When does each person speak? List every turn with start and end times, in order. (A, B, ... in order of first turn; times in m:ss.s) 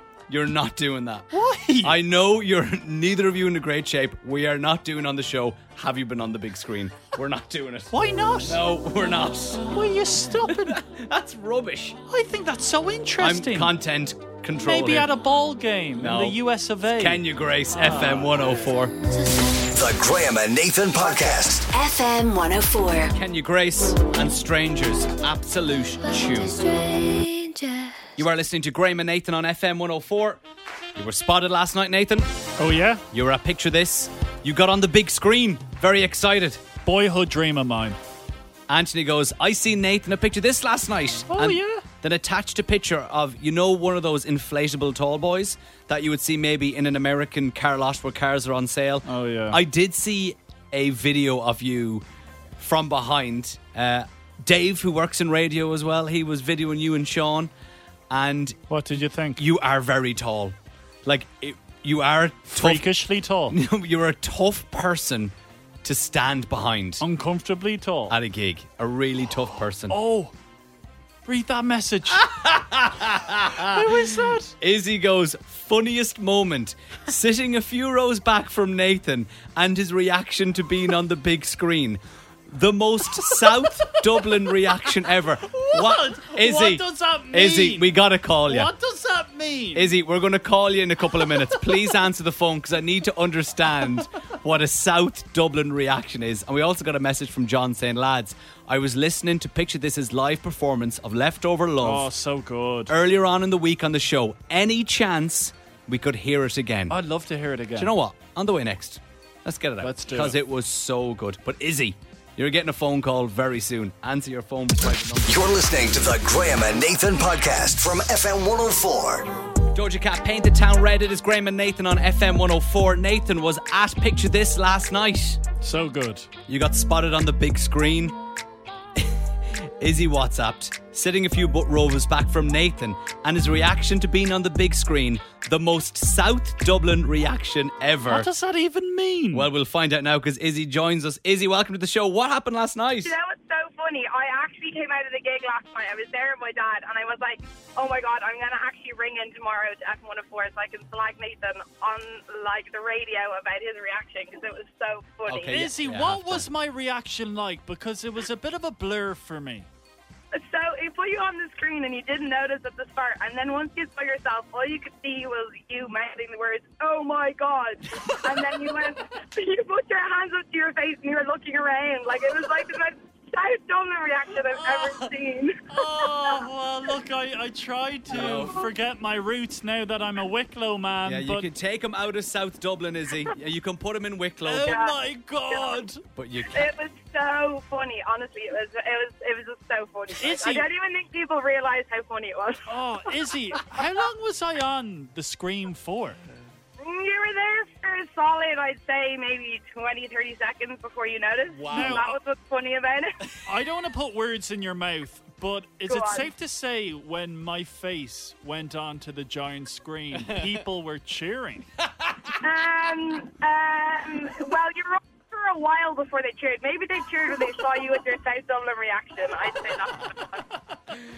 0:00.3-0:01.3 A
0:01.3-0:02.0 B
0:01.8-0:07.9 A
0:07.9-0:08.6 B
0:08.4-0:09.6 A
0:09.6-0:10.8 B
0:10.5-0:12.0 A
0:12.1-0:13.7 B
0:13.2-0:15.1 A
0:14.6-0:18.3 B
0:16.0-0:19.0 A
0:19.7-0:21.7 C
0:21.7-0:23.1 D
0:23.1-0:26.8 A
0:26.1-0:28.1 D
0:28.2-0:30.4 A
0:31.0-0:32.3 A
0:32.6-0:33.0 B
0:33.1-0:36.6 A
0:36.8-0:38.0 B
0:38.7-0:52.0 A
0:41.3-0:41.8 B
0:49.1-0:49.6 B
0:52.6-0:57.5 A
0:58.1-0:58.6 A
0:58.7-0:59.4 B
0:59.4-1:02.9 A
1:02.5-1:03.6 B
1:03.5-1:05.3 A
1:05.8-1:07.0 A
1:07.0-1:08.1 B
1:08.1-1:10.0 A
1:09.9-1:10.3 B
1:11.3-1:12.2 B
1:12.1-1:28.7 A
1:13.6-1:14.5 B
1:23.3-1:23.6 B
1:25.5-1:27.9 B
1:28.5-1:29.9 B
1:29.8-1:42.1 A
1:31.2-1:31.5 B
1:41.8-1:42.9 B
1:42.9-1:47.0 A
1:46.9-1:47.9 B
1:47.8-1:55.4 A
1:49.8-1:50.4 B
1:55.3-1:59.3 C
1:59.7-2:05.4 A
2:05.6-2:06.3 B
2:06.5-2:08.2 A
2:09.8-2:18.3 A
2:18.1-2:19.5 B
2:19.3-2:23.2 A
2:23.0-2:35.6 E
2:35.3-2:36.5 A
2:35.5-2:39.7 B
2:40.3-2:56.4 E
2:54.5-2:55.1 B
2:55.7-3:01.5 B
2:58.1-2:58.6 A
3:01.1-3:04.8 A
3:04.4-3:06.0 B
3:04.7-3:05.0 E
3:05.5-3:05.8 E
3:06.2-3:06.7 A
3:06.5-3:12.7 E
3:10.2-3:10.7 B
3:12.7-3:16.2 B
3:16.8-3:23.1 E
3:21.6-3:22.1 B
3:21.7-3:22.0 A
3:23.5-3:31.7 B
3:25.9-3:26.3 E
3:30.2-3:30.6 A
3:32.4-3:40.4 E